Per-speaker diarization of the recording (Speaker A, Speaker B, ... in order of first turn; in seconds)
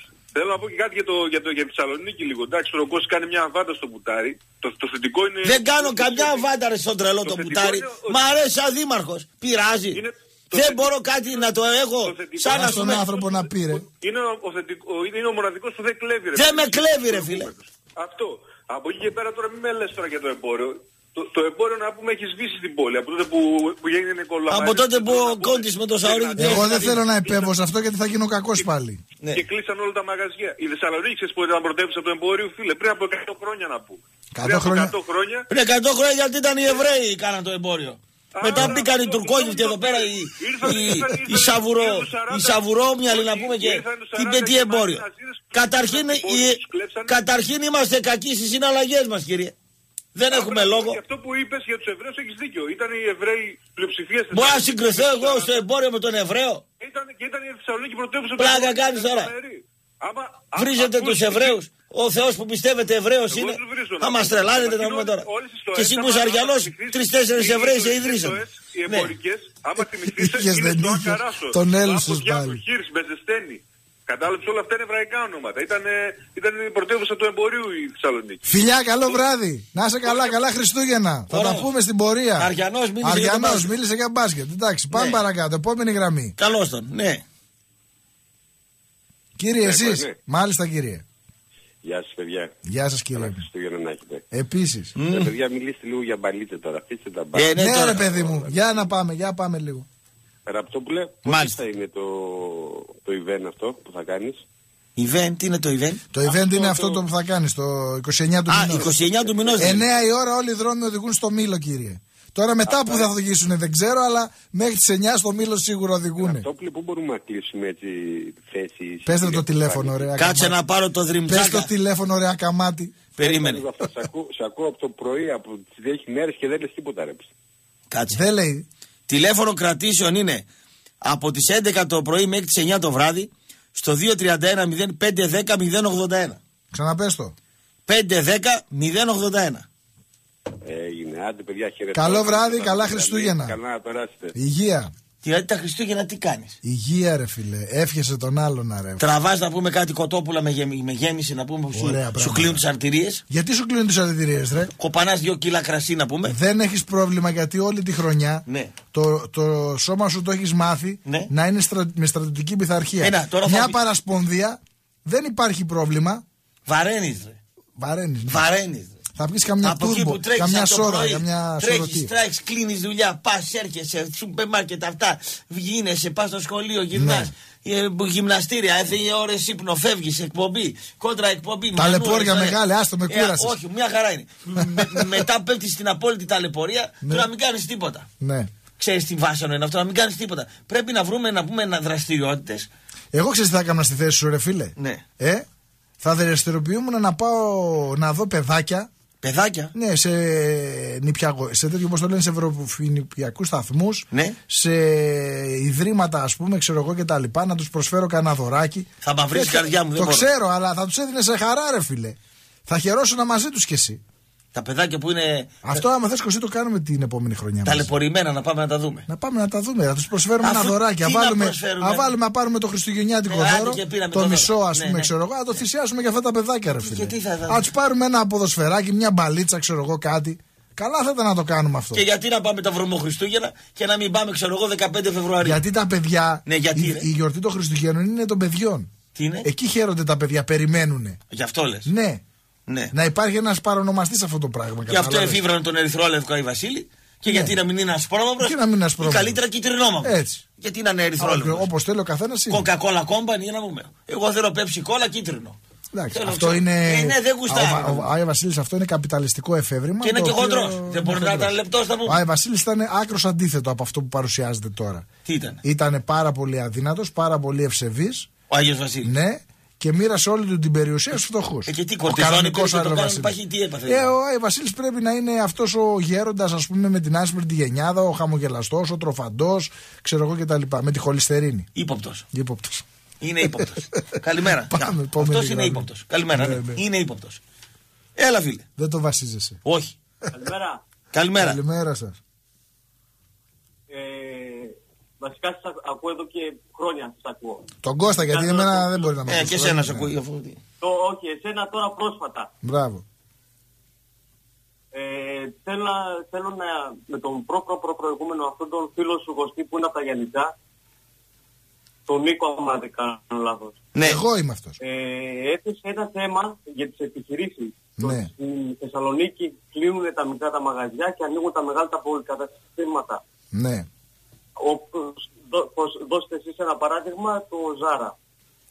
Speaker A: 0.3-6.4, 7.3-8.0, 12.3-12.7, 13.9-27.4, 29.4-35.4, 38.4-42.5, 43.1-45.1, 45.8-47.1, 50.5-55.5, 57.1-59.2, 60.4-61.2, 63.3-78.4
Speaker B: 5.4-13.1, 16.3-17.5, 24.5-27.0, 35.5-49.5, 50.1-51.0, 54.3-56.6, 58.4-59.3, 60.5-69.1, 81.3-81.7, 82.4-83.7, 84.9-85.2, 86.4-87.2, 95.0-95.3, 97.3-98.0, 101.2-101.6, 105.0-106.0, 108.5-109.8, 120.2-121.7, 123.2-123.6, 127.9-128.2, 129.1-130.4, 131.0-136.4, 137.9-139.7, 145.2-146.6, 149.0-153.2, 154.8-156.3, 158.5-158.7, 163.0-163.8, 166.7-167.4, 168.3-168.9, 169.6-182.6, 183.1-188.1, 188.8-192.7, 194.8-195.0, 199.2-199.7, 204.1-204.4, 209.0-210.2, 214.5-215.8, 217.6-219.1, 220.4-222.1, 223.3-225.1, 226.8-227.6, 231.9-235.6, 236.4-237.1, 239.1-239.5, 241.3-241.9, 242.7-242.9, 244.9-251.7, 252.5-255.6, 256.1-258.1, 260.0-262.2, 265.2-265.6, 268.5-269.1, 271.7-274.1, 281.7-282.2, 283.2-287.4, 288.1-288.6, 289.6-289.9, 291.1-291.6, 299.2-300.6, 313.9-314.2
Speaker C: 12.4-13.8, 26.4-29.0, 34.3-35.0, 70.0-72.6, 78.4-86.3, 89.4-91.0, 92.7-93.5, 94.3-94.9, 97.6-99.8, 106.1-108.9, 109.6-116.5, 119.0-120.5, 121.3-123.0, 128.1-128.7, 136.7-137.3, 141.9-143.6, 144.3-144.9, 146.6-149.0, 151.7-152.6, 153.3-154.7, 156.2-166.2, 167.8-168.4, 169.2-172.1, 176.9-177.3, 181.8-183.6, 184.6-185.2, 187.0-187.3, 188.2-188.5, 193.1-195.4, 196.0-198.9, 199.7-214.0, 215.6-217.9, 219.1-232.0, 235.4-238.9, 239.4-241.2, 241.8-242.2, 242.9-245.4, 247.3-247.5, 248.4-249.4, 250.0-250.4, 251.2-252.6, 255.9-261.5, 262.0-265.1, 265.6-268.3, 269.0-273.3, 273.9-281.7, 282.3-282.8, 283.5-284.0, 284.6-286.8, 288.8-289.6, 291.4-292.2, 297.8-300.1, 302.6-303.0, 314.0-314.8, 318.0-318.3, 323.5-323.9
Speaker D: 89.6-90.1, 91.8-92.5, 93.1-94.2, 95.0-98.7, 100.5-104.4, 106.3-107.0, 112.7-113.0, 116.2-120.1, 123.2-127.3, 140.6-144.3
Speaker E: 290.3-290.8, 293.9-297.6, 298.3-299.1, 300.8-302.5, 304.9-310.5, 312.1-313.8, 314.8-323.2, 324.6-328.1